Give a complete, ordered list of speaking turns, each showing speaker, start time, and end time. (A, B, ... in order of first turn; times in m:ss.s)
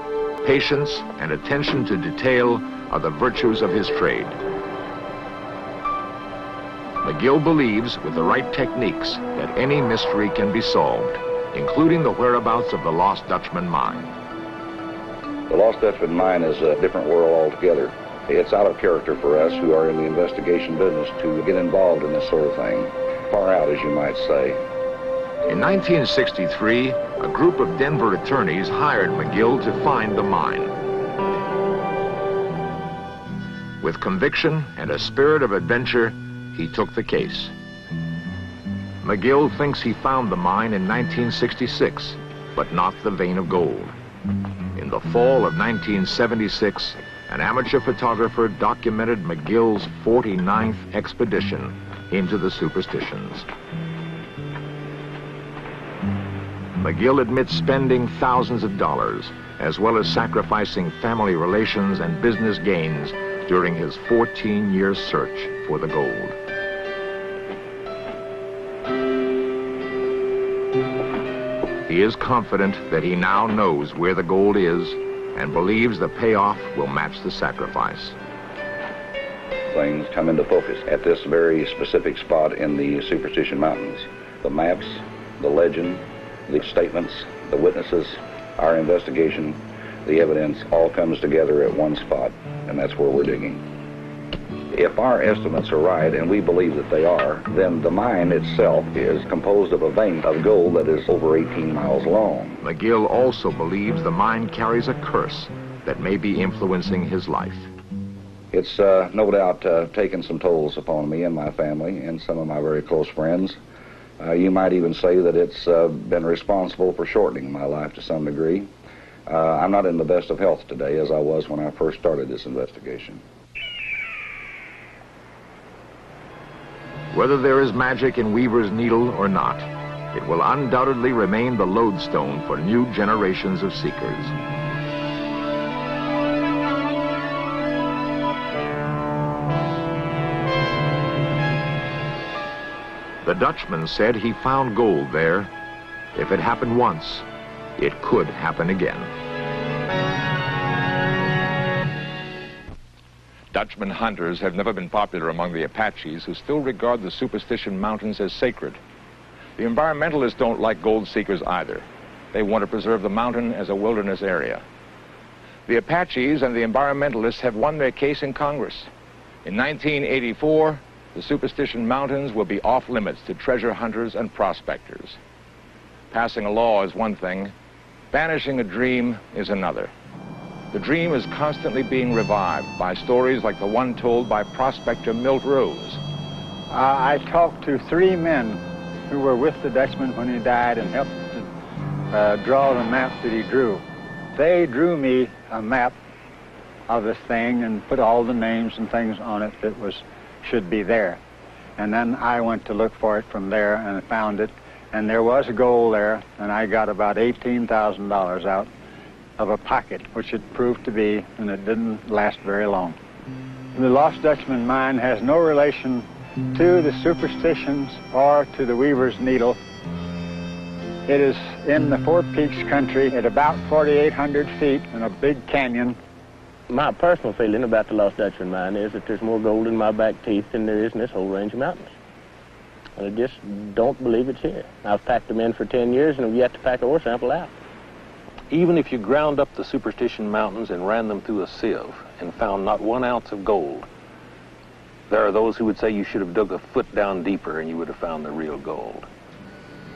0:00.4-0:04.4 A
0:07.0-0:14.1 A
0:15.5-0:24.6 B
0:25.5-0:30.7 A
0:33.8-0:37.5 A
0:39.0-0:43.9 A
0:44.7-0:53.5 A
0:56.8-1:06.3 A
1:11.8-1:18.2 A
1:19.7-1:33.6 B
1:34.7-1:42.6 B
1:42.6-1:47.7 A
1:48.5-1:53.6 B
1:54.2-1:58.7 B
1:59.3-2:03.2 B
2:07.1-2:14.3 A
2:23.2-2:25.5 A
2:26.1-2:27.2 A
2:27.8-2:29.1 A
2:33.5-2:38.8 A
2:39.6-2:44.6 A
2:45.6-2:48.9 A
2:49.4-2:55.2 A
2:56.1-2:57.5 A
2:58.1-2:59.9 A
3:00.7-3:06.0 A
3:06.7-3:11.5 C
3:12.1-3:13.8 C
3:14.3-3:15.9 C
3:16.9-3:21.2 C
3:21.8-3:28.7 C
3:29.4-3:33.0 C
3:33.7-3:39.6 C
3:41.0-3:46.0 C
3:46.7-3:51.9 D
3:53.0-3:57.5 D
3:58.5-4:03.8 E
4:05.1-4:06.7 E
4:06.8-4:08.8 D